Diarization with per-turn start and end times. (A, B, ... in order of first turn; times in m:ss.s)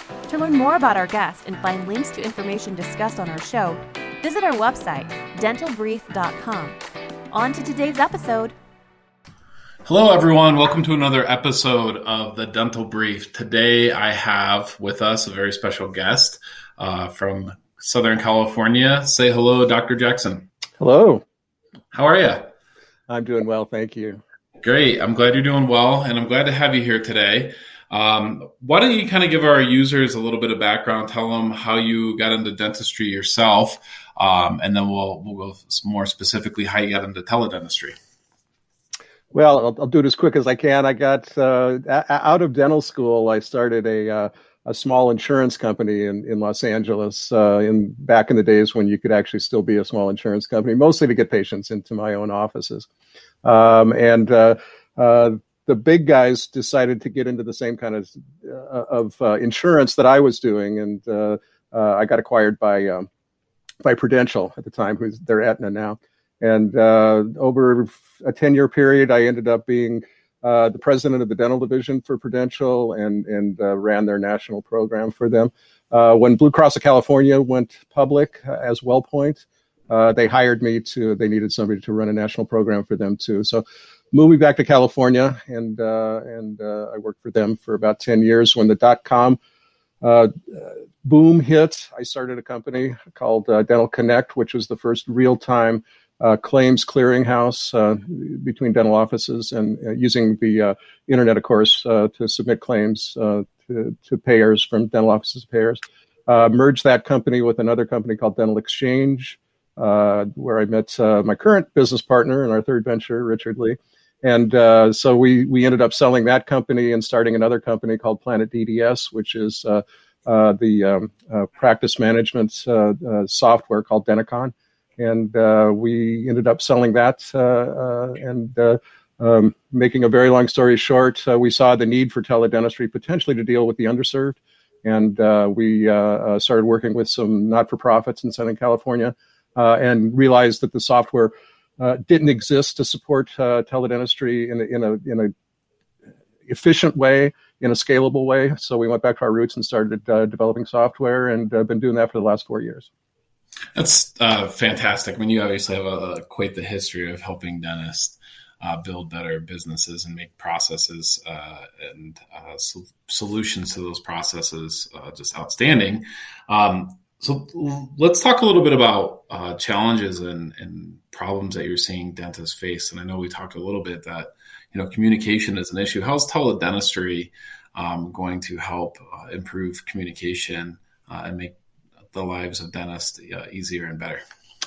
0:00.3-0:06.8 A
0:07.3-0:08.5 A
0:09.8-0:20.5 B
0:20.8-0:21.2 C
0:21.9-0:22.5 B
0:23.1-0:24.2 C
0:24.6-0:38.0 B
0:39.3-0:52.9 C
0:53.4-1:03.1 C
1:03.8-1:29.4 C
1:30.0-2:25.3 C
2:26.5-2:32.9 C
2:33.7-3:01.6 B
3:02.1-3:04.2 B